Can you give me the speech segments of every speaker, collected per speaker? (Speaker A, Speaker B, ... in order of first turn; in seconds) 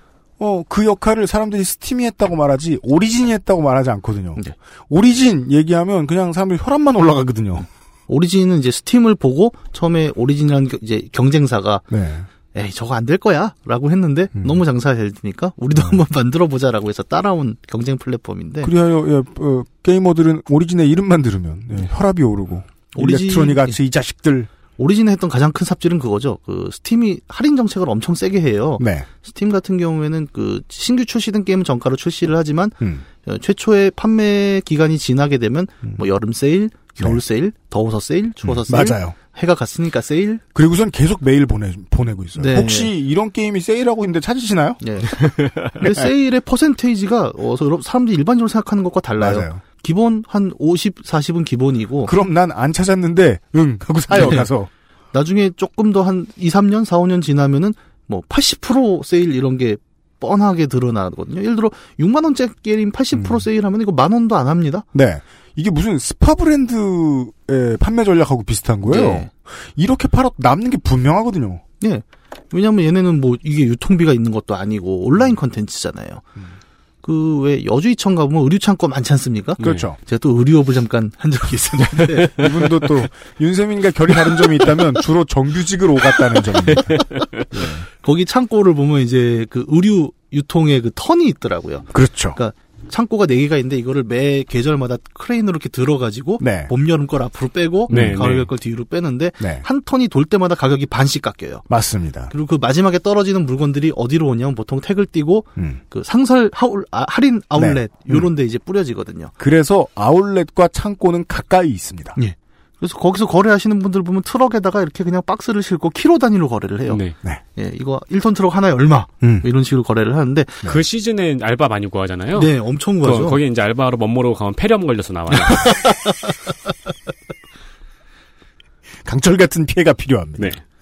Speaker A: 0.4-7.7, 11.9-12.3, 14.4-14.6, 18.6-24.5, 28.8-29.1, 32.8-33.0, 38.4-39.1, 40.5-44.8, 49.2-49.6, 52.0-54.7, 63.1-63.4, 64.9-71.6, 79.6-80.0, 82.3-87.8, 91.9-92.4, 96.4-96.7, 97.9-98.4, 99.4-99.6, 101.7-102.3, 105.5-105.8, 107.5-108.3, 109.4-112.2, 119.2-119.5, 129.1-130.6
Speaker B: 8.1-11.8, 12.5-18.7, 22.9-23.8, 24.8-40.4, 42.4-42.9, 44.8-52.1, 54.1-54.4, 55.1-64.8, 68.9-69.3, 71.8-76.2, 77.0-82.3, 88.0-101.7, 102.3-109.3, 112.2-117.0, 117.5-120.6, 122.3-123.4
Speaker C: 45.2-45.7, 79.6-79.8, 86.7-87.4, 97.9-98.5, 116.9-117.2, 120.6-125.9